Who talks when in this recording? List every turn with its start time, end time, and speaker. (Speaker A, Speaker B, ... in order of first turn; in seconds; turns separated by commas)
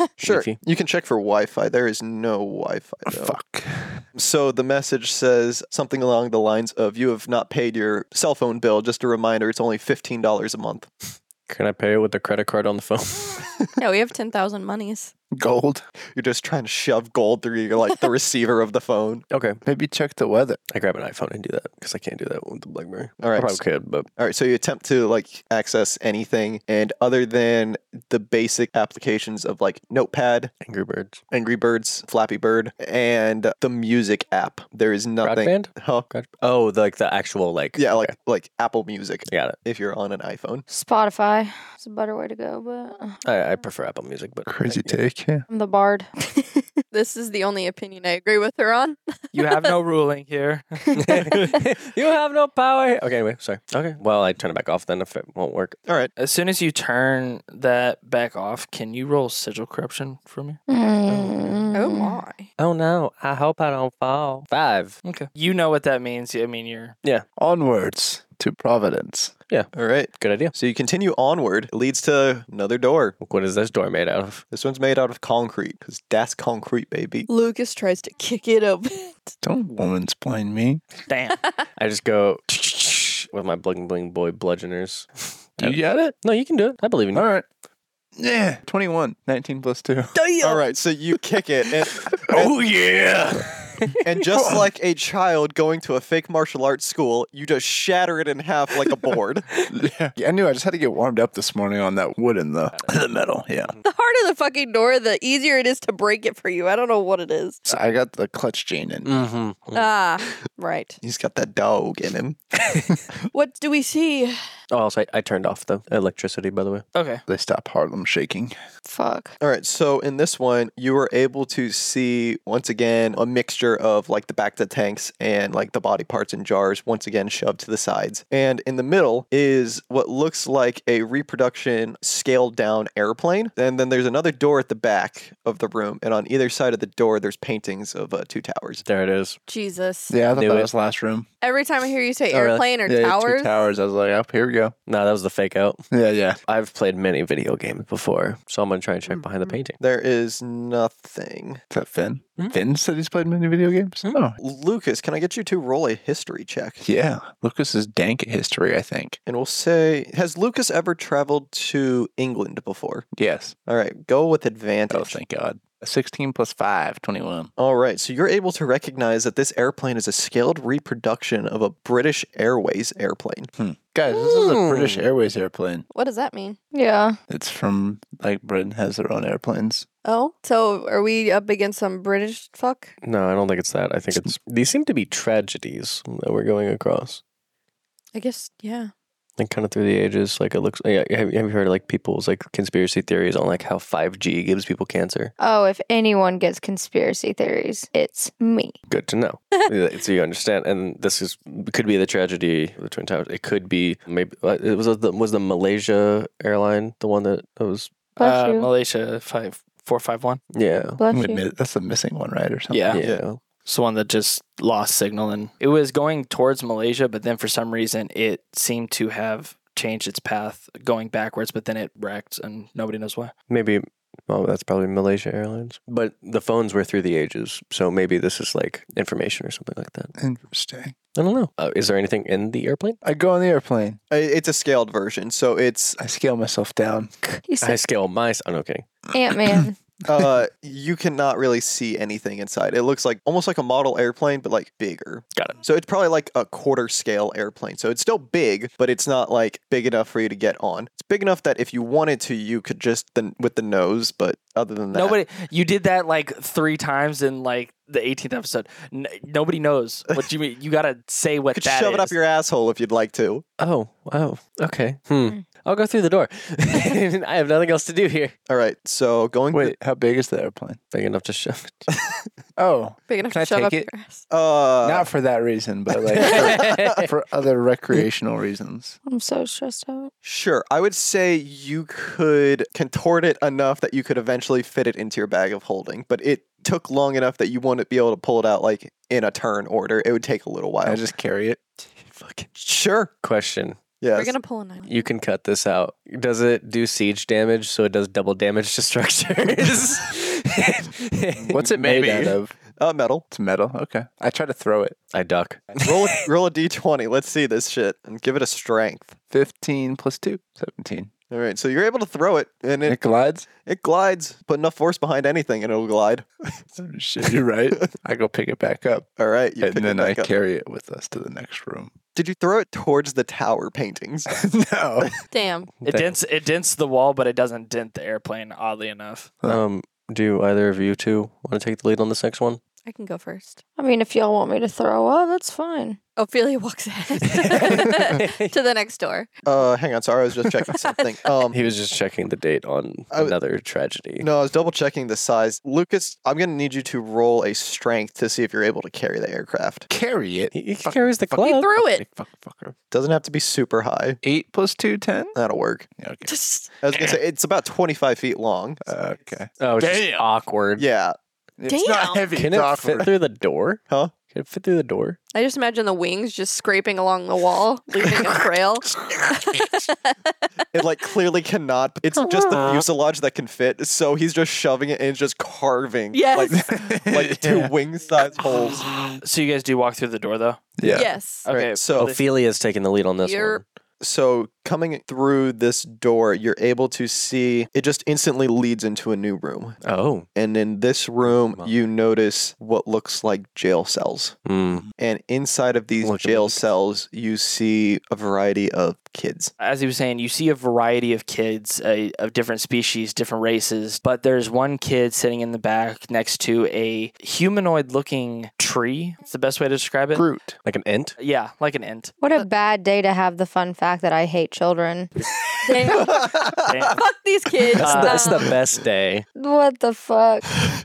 Speaker A: 0.2-0.6, Speaker B: 0.2-3.4, Speaker C: 3.1-4.0, Speaker B: 4.1-10.9, Speaker A: 11.5-13.4, Speaker D: 13.8-15.1, Speaker C: 15.3-15.8, Speaker B: 16.1-19.2, Speaker A: 19.3-19.6, Speaker C: 19.6-20.6, Speaker A: 20.7-24.1, Speaker B: 23.2-23.6, Speaker B: 24.2-30.5, Speaker A: 30.6-31.2, Speaker B: 31.3-36.0, Speaker A: 35.2-38.1, Speaker B: 37.8-40.6, Speaker A: 39.3-39.5, Speaker E: 40.7-43.2, Speaker A: 43.2-45.0, Speaker C: 44.5-45.5, Speaker E: 45.5-46.6, Speaker D: 46.9-49.7, Speaker F: 49.3-50.8, Speaker A: 51.0-55.8, Speaker B: 55.9-56.1, Speaker F: 56.2-60.6, Speaker E: 60.7-62.2, Speaker A: 61.1-61.6, Speaker D: 61.7-62.5, Speaker A: 62.6-65.0, Speaker F: 65.0-67.0, Speaker C: 67.4-69.3, Speaker A: 69.5-70.5, Speaker B: 69.7-73.2, Speaker A: 73.2-74.4, Speaker B: 74.5-77.3, Speaker D: 77.3-79.1, Speaker C: 79.4-80.8, Speaker F: 81.1-81.4, Speaker A: 81.8-87.2, Speaker C: 85.6-86.2, Speaker C: 87.1-87.5, Speaker C: 88.2-90.1, Speaker D: 90.1-90.8, Speaker B: 90.4-92.6, Speaker C: 92.3-93.0, Speaker A: 92.5-93.4, Speaker B: 94.0-99.5, Speaker C: 94.3-94.7, Speaker C: 99.7-103.7, Speaker D: 103.8-107.6, Speaker C: 107.7-109.1, Speaker A: 109.0-109.9, Speaker D: 109.7-111.0, Speaker B: 111.0-112.4, Speaker D: 113.3-114.3, Speaker A: 114.7-116.8, Speaker F: 116.9-117.2, Speaker C: 117.3-118.5, Speaker E: 118.8-119.3, Speaker B: 119.4-138.8, Speaker A: 138.8-139.4, Speaker D: 139.5-140.1, Speaker C: 140.1-141.3, Speaker A: 140.3-140.7, Speaker D: 141.4-143.5, Speaker A: 142.3-142.6, Speaker C: 142.8-144.7, Speaker A: 144.9-145.8, Speaker C: 145.9-146.4, Speaker A: 146.5-149.8, Speaker B: 149.8-151.6, Speaker C: 151.7-154.3, Speaker B: 154.4-156.8, Speaker C: 156.8-159.2, Speaker B: 159.2-163.1, Speaker C: 163.1-163.5, Speaker B: 163.7-165.2, Speaker C: 164.9-167.5, Speaker B: 167.6-173.5, Speaker C: 173.6-175.8, Speaker A: 174.1-175.0, Speaker D: 175.9-176.6, Speaker E: 176.7-177.2, Speaker C: 177.3-179.8, Speaker D: 180.0-182.9, Speaker A: 183.0-187.2, Speaker D: 188.1-188.9, Speaker A: 189.4-195.3, Speaker E: 195.4-198.7, Speaker A: 198.9-207.9, Speaker E: 208.2-208.7, Speaker F: 208.2-210.4, Speaker A: 210.5-211.0, Speaker E: 211.0-211.4, Speaker C: 211.1-212.9, Speaker F: 212.7-213.0, Speaker A: 212.9-213.4, Speaker B: 213.0-213.2, Speaker F: 213.6-223.3, Speaker A: 223.5-230.1, Speaker C: 230.2-230.9, Speaker A: 231.2-233.0, Speaker C: 233.0-234.0, Speaker B: 234.1-236.0, Speaker C: 236.0-237.1, Speaker E: 237.4-237.8, Speaker A: 237.6-238.9, Speaker E: 239.1-239.7, Speaker C: 239.5-240.3, Speaker B: 240.1-255.2, Speaker F: 254.9-262.2, Speaker B: 261.5-263.4, Speaker A: 263.6-268.3, Speaker B: 268.5-269.7, Speaker C: 269.5-270.8, Speaker A: 270.9-271.9, Speaker C: 272.6-273.9, Speaker D: 273.1-274.2, Speaker B: 274.3-275.1, Speaker C: 274.8-279.0, Speaker B: 276.2-277.0, Speaker A: 276.2-277.1, Speaker E: 279.1-280.1, Speaker B: 280.2-291.0, Speaker C: 290.8-292.4, Speaker B: 292.5-293.1, Speaker A: 293.2-293.8, Speaker B: 294.0-294.3, Speaker D: 294.1-294.9, Speaker A: 294.9-302.4, Speaker C: 301.4-302.6, Speaker B: 302.8-303.2, Speaker C: 303.3-305.0, Speaker A: 305.1-305.8, Speaker B: 305.8-309.1, Speaker C: 309.3-311.1, Speaker B: 311.3-313.0, Speaker C: 312.8-313.4, Speaker B: 313.6-316.3, Speaker C: 316.8-319.1, Speaker B: 319.2-320.3, Speaker C: 319.6-321.9, Speaker B: 322.1-324.3, Speaker C: 324.3-325.1, Speaker D: 325.3-325.7, Speaker F: 325.8-329.3, Speaker A: 325.8-326.1, Speaker A: 329.4-332.6, Speaker D: 332.8-333.6, Speaker E: 333.8-336.0, Speaker D: 336.2-339.3, Speaker A: 337.3-338.5, Speaker B: 339.4-341.6, Speaker A: 341.5-344.3, Speaker B: 344.2-349.9, Speaker C: 349.9-352.7, Speaker A: 350.5-351.8, Speaker D: 351.4-352.0, Speaker B: 352.9-354.2, Speaker C: 354.2-355.3, Speaker B: 355.3-355.9, Speaker C: 356.0-356.3, Speaker D: 356.2-356.7, Speaker B: 356.8-358.8, Speaker C: 358.8-360.2, Speaker A: 359.6-360.8, Speaker B: 360.8-361.1, Speaker C: 361.6-363.1, Speaker D: 361.7-362.3, Speaker A: 362.4-365.2, Speaker D: 365.3-370.1, Speaker C: 369.0-369.4, Speaker B: 370.7-379.0, Speaker D: 376.1-376.6, Speaker C: 376.5-377.7, Speaker F: 379.2-380.8, Speaker C: 380.8-381.1, Speaker D: 380.9-381.5, Speaker F: 381.4-382.2, Speaker B: 381.5-382.1, Speaker A: 381.6-383.6, Speaker D: 383.2-383.6, Speaker B: 384.0-389.8, Speaker A: 389.8-390.2, Speaker B: 390.3-394.4, Speaker A: 391.2-391.7, Speaker A: 394.4-394.8, Speaker B: 395.0-399.5, Speaker A: 396.0-396.6, Speaker F: 399.6-410.2, Speaker C: 410.1-410.6, Speaker A: 410.6-411.2, Speaker F: 411.2-412.1, Speaker E: 412.2-415.1, Speaker D: 415.7-416.1, Speaker B: 415.8-416.9, Speaker F: 416.7-417.0, Speaker D: 416.9-418.4, Speaker A: 417.8-419.2, Speaker F: 417.8-418.2, Speaker E: 419.4-420.5